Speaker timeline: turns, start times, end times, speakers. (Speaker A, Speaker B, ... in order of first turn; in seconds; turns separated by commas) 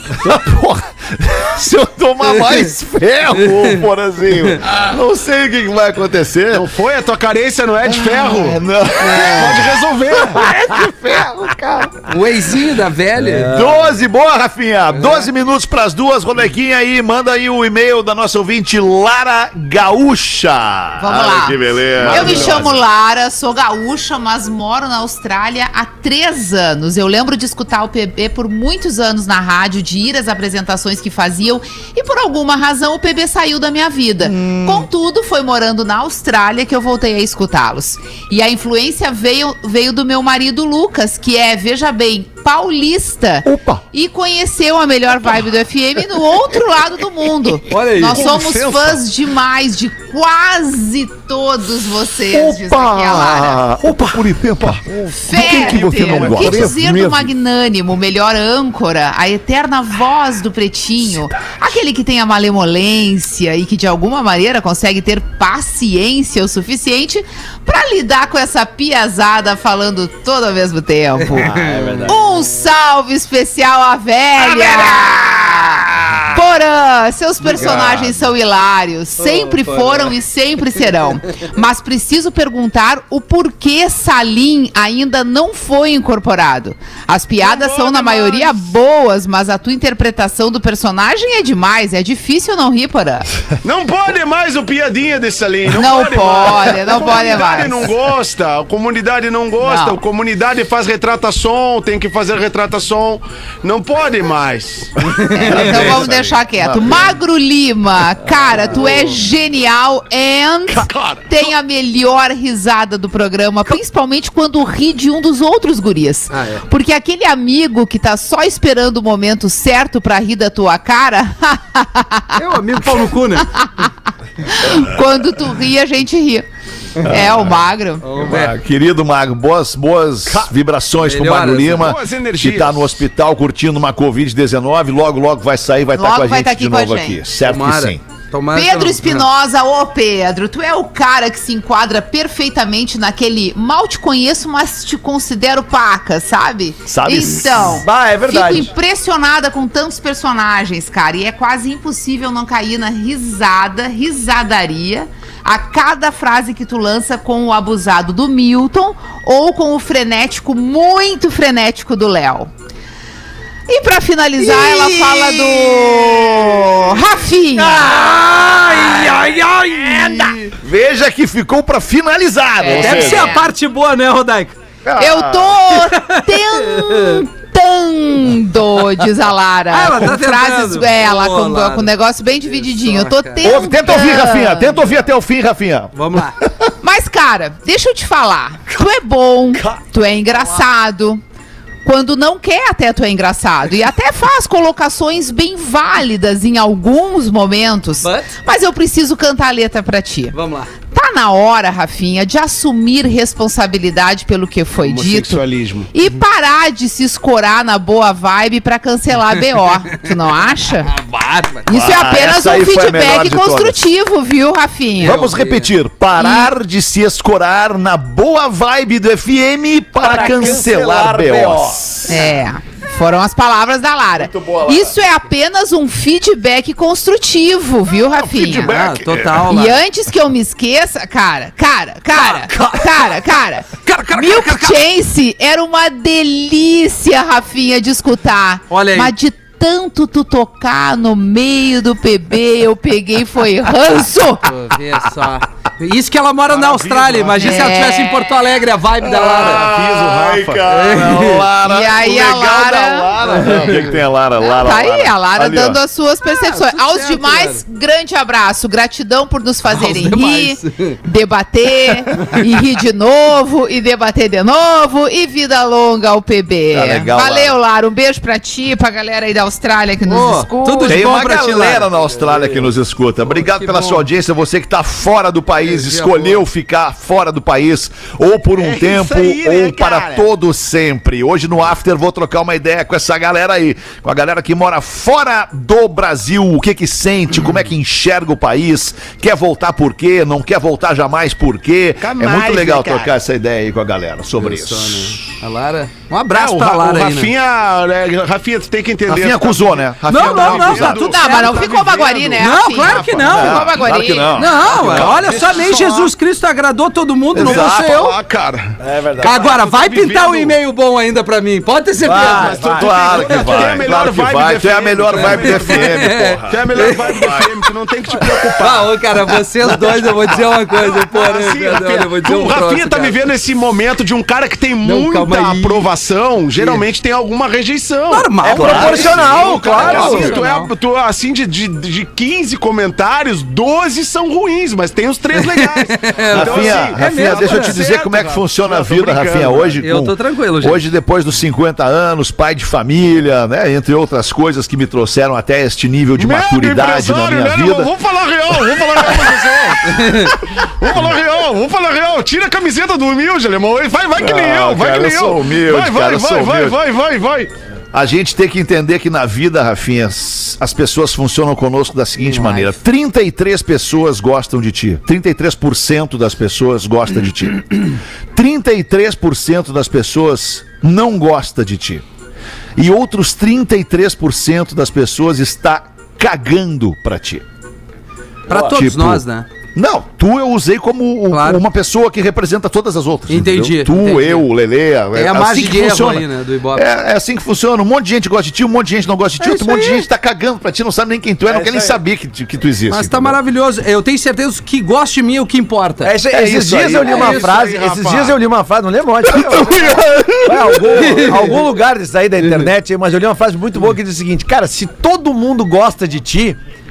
Speaker A: 0.2-6.7, Speaker B: 2.3-2.7, Speaker B: 3.4-3.8, Speaker C: 6.5-8.6, Speaker A: 7.8-12.2, Speaker B: 9.0-9.6, Speaker C: 9.1-10.5, Speaker B: 12.1-13.5, Speaker D: 13.2-13.8, Speaker A: 13.4-22.8, Speaker E: 21.0-53.7, Speaker C: 22.0-22.8, Speaker A: 34.2-34.9, Speaker A: 43.4-43.8, Speaker B: 47.7-48.2, Speaker C: 48.1-49.0, Speaker A: 52.3-57.3, Speaker C: 54.9-56.7, Speaker E: 55.2-93.3, Speaker D: 56.4-57.0, Speaker B: 71.2-72.2, Speaker D: 71.3-72.2, Speaker A: 74.4-75.9, Speaker A: 77.5-78.1, Speaker B: 79.2-80.1, Speaker C: 87.4-88.7, Speaker C: 93.6-105.1, Speaker E: 95.7-97.9, Speaker E: 99.6-100.0, Speaker B: 105.0-106.0, Speaker E: 105.3-123.9, Speaker A: 105.5-107.1, Speaker C: 110.7-111.4, Speaker B: 116.3-116.6, Speaker B: 122.3-123.5, Speaker E: 124.4-126.5, Speaker E: 127.0-128.2, Speaker A: 127.0-127.5, Speaker B: 128.0-128.5, Speaker A: 128.2-138.0, Speaker B: 131.0-131.9, Speaker C: 131.8-133.0, Speaker E: 135.9-137.2, Speaker B: 137.4-139.3, Speaker E: 138.5-162.5, Speaker A: 146.9-147.7, Speaker D: 147.6-148.7, Speaker E: 163.7-167.9, Speaker B: 164.5-165.5, Speaker D: 165.8-166.3, Speaker D: 167.6-170.5, Speaker B: 168.6-170.5, Speaker A: 170.6-173.4, Speaker E: 172.6-173.5, Speaker B: 172.6-174.6, Speaker A: 174.8-175.6, Speaker E: 175.0-184.8, Speaker B: 175.7-177.2, Speaker B: 179.7-181.9, Speaker B: 182.4-183.6, Speaker A: 183.4-186.7, Speaker B: 185.9-186.4, Speaker E: 186.8-191.2, Speaker E: 191.8-210.9, Speaker B: 198.0-198.4, Speaker B: 200.3-200.7, Speaker C: 204.8-205.9, Speaker B: 210.8-211.7, Speaker E: 211.7-215.2, Speaker A: 211.7-213.8, Speaker B: 215.0-215.7, Speaker A: 215.0-222.2, Speaker E: 216.1-216.5, Speaker D: 220.0-222.1, Speaker E: 222.1-228.7, Speaker A: 224.2-224.9, Speaker A: 228.1-229.4, Speaker B: 228.6-229.8, Speaker E: 229.5-244.4, Speaker B: 232.1-232.7, Speaker B: 233.8-234.8, Speaker B: 238.7-239.1, Speaker B: 244.4-249.7, Speaker C: 246.5-247.7, Speaker E: 247.4-248.4, Speaker A: 249.0-255.8, Speaker C: 249.2-250.7, Speaker B: 250.7-251.5, Speaker E: 251.6-253.4, Speaker B: 253.5-253.8, Speaker E: 254.4-271.1, Speaker B: 256.3-257.6, Speaker B: 259.6-261.0, Speaker A: 266.7-267.5, Speaker B: 270.1-271.9, Speaker A: 270.9-295.2, Speaker D: 272.2-272.6, Speaker B: 273.3-274.1, Speaker B: 275.6-276.4, Speaker D: 278.6-280.2, Speaker C: 292.0-293.1, Speaker B: 294.4-297.3, Speaker C: 296.3-303.5, Speaker A: 299.1-301.2, Speaker B: 300.1-301.7, Speaker E: 301.1-304.4, Speaker B: 302.4-303.7, Speaker A: 303.2-305.5, Speaker B: 304.3-308.1, Speaker C: 304.7-305.6, Speaker D: 305.5-305.8, Speaker E: 305.6-305.8, Speaker A: 307.3-308.1, Speaker C: 307.4-308.8, Speaker D: 308.8-309.5, Speaker B: 309.2-312.5, Speaker C: 309.3-310.6, Speaker D: 312.0-312.9, Speaker C: 312.1-318.9, Speaker A: 312.6-317.5, Speaker B: 313.2-313.7, Speaker B: 315.1-317.4, Speaker B: 318.6-323.2, Speaker C: 320.7-339.8, Speaker B: 324.8-325.9, Speaker B: 326.6-326.8, Speaker B: 328.1-330.7, Speaker D: 328.4-330.4, Speaker A: 328.5-330.3, Speaker B: 335.3-337.8, Speaker A: 336.3-347.9, Speaker B: 339.8-340.9, Speaker C: 346.1-357.5, Speaker B: 349.9-350.4, Speaker A: 354.2-356.8, Speaker A: 357.9-372.0, Speaker A: 372.8-377.4, Speaker B: 378.5-379.5, Speaker A: 378.5-393.4, Speaker B: 381.3-381.6, Speaker B: 383.3-384.4, Speaker B: 385.1-386.9, Speaker D: 391.5-392.0, Speaker B: 392.9-396.4, Speaker D: 396.0-406.6, Speaker C: 396.3-398.4, Speaker B: 397.0-397.5, Speaker A: 399.5-399.9, Speaker B: 400.9-401.6, Speaker B: 402.4-402.7